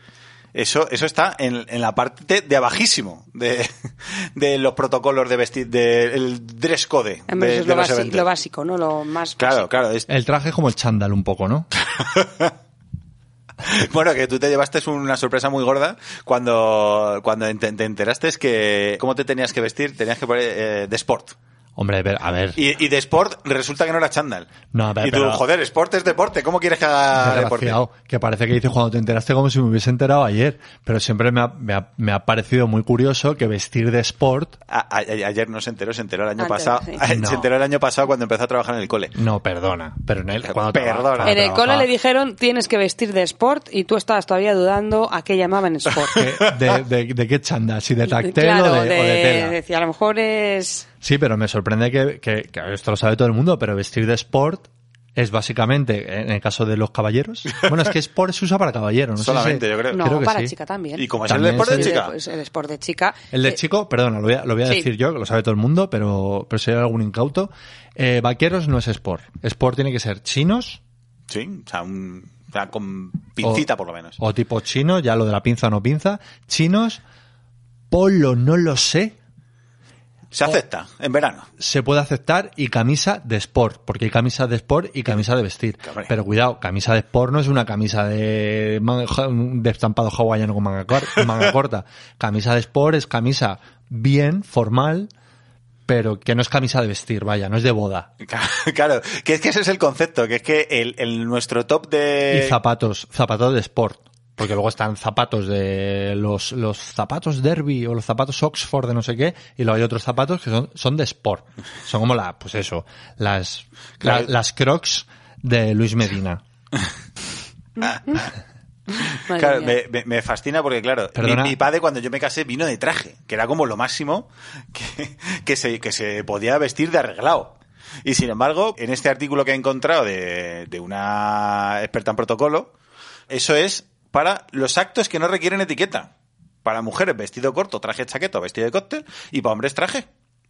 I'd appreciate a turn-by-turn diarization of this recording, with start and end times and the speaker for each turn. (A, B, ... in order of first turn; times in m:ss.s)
0:00.5-0:08.3 A
0:07.3-0:09.7 B
0:09.4-0:10.1 A
0:10.1-0:11.7 C
0:11.8-0:12.5 A
0:13.6-0:21.4 A
0:21.8-0:22.6 C
0:22.6-0:27.8 A
0:24.7-0:25.4 C
0:27.2-0:34.6 C
0:34.7-0:39.2 A
0:36.4-0:37.0 B
0:37.1-0:37.5 C
0:39.2-0:41.9 C
0:40.4-0:41.4 A
0:41.2-0:46.2 B
0:46.1-0:46.7 A
0:46.1-0:49.6 C
0:48.1-0:50.9 B
0:51.0-1:00.6 C
0:59.2-1:00.0 A
0:59.9-1:03.6 B
1:01.0-1:02.1 A
1:01.3-1:02.0 C
1:03.3-1:10.8 C
1:11.3-1:14.2 A
1:14.2-1:17.0 C
1:17.9-1:19.2 C
1:20.3-1:21.5 A
1:21.6-1:35.1 C
1:25.8-1:26.1 A
1:35.9-1:38.1 C
1:38.2-1:42.6 A
1:42.3-1:56.4 C
1:54.0-1:54.3 A
1:57.8-1:58.2 B
1:57.8-1:58.3 A
1:58.9-1:59.8 B
1:59.3-2:12.7 A
2:01.2-2:01.6 C
2:13.3-2:16.1 A
2:16.6-2:20.1 A